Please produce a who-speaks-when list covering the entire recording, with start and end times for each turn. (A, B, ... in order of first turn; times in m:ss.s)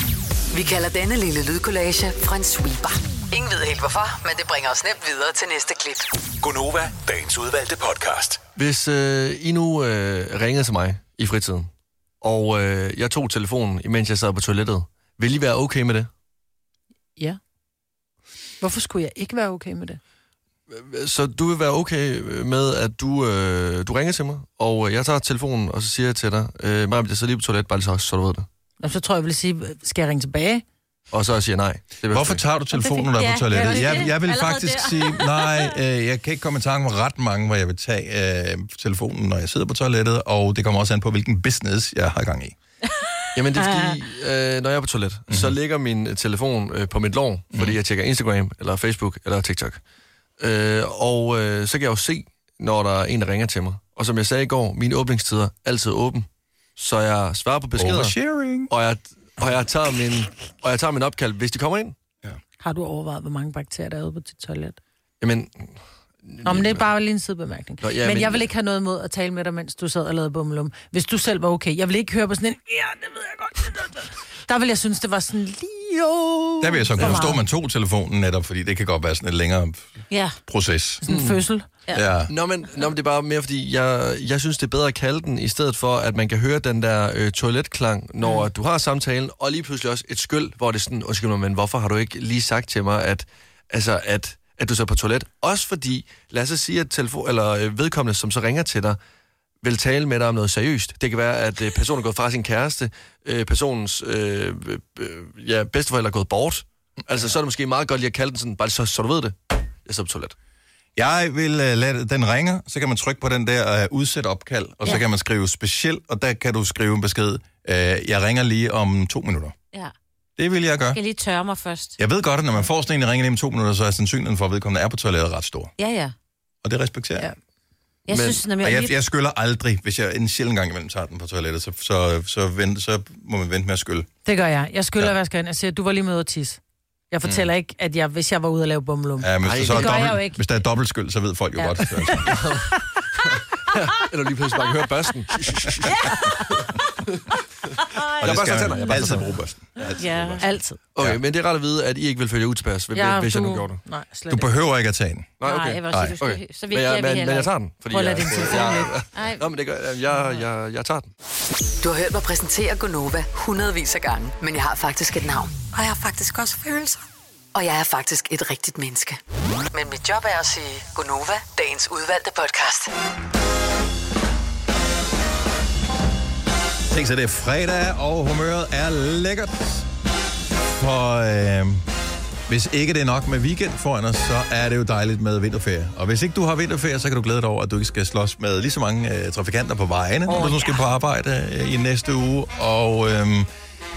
0:00.5-0:06.1 A
0:06.4-0:08.4 B
0:08.6-0:11.7 C
0:12.2-0:16.1 C
0:18.6-0:20.0 D
0:20.7-0:28.5 C
0:28.8-0:30.6 D
0:31.1-0:32.4 C
0:32.1-0:42.6 E
0:32.7-0:35.8 F
0:43.3-0:44.0 F
0:43.4-0:49.8 C
0:50.4-0:56.3 C
0:56.8-0:58.2 C
0:57.8-0:58.7 E
0:58.7-1:02.0 C
1:02.6-1:04.8 D
1:05.2-1:06.9 C
1:06.4-1:17.4 D
1:07.8-1:08.5 C
1:16.6-1:19.8 E
1:20.1-1:20.4 F
1:20.5-1:21.0 E
1:21.0-1:21.7 D
1:21.1-1:21.4 C
1:21.9-1:22.3 E
1:22.3-1:39.0 C
1:39.6-1:50.4 C
1:51.0-1:59.6 E
2:00.4-2:01.0 E
2:00.9-2:02.0 F
2:02.0-2:05.7 E
2:05.8-2:06.1 F
2:06.6-2:07.3 E
2:08.1-2:08.9 F
2:08.1-2:08.4 C
2:08.6-2:14.1 E
2:14.2-2:16.6 D
2:17.1-2:20.4 D
2:17.2-2:17.5 E
2:19.2-2:22.4 E
2:19.4-2:20.2 C
2:22.3-2:27.2 C
2:25.9-2:26.4 F
2:27.9-2:29.0 F
2:28.2-2:29.4 C
2:28.2-2:30.4 E
2:30.0-2:30.5 F
2:30.1-2:30.4 C
2:30.4-2:30.8 D
2:31.0-2:33.8 C
2:32.9-2:34.5 D
2:34.3-2:35.4 E
2:35.4-2:41.1 C
2:35.4-2:37.5 F
2:35.9-2:36.2 E
2:37.9-2:38.9 D
2:39.2-2:39.5 F
2:40.1-2:40.4 F
2:41.8-2:47.0 A
2:47.5-2:49.2 A
2:49.7-2:52.9 A
2:56.9-2:59.9 E
3:00.6-3:01.8 E
3:02.5-3:13.5 E
3:10.3-3:10.9 F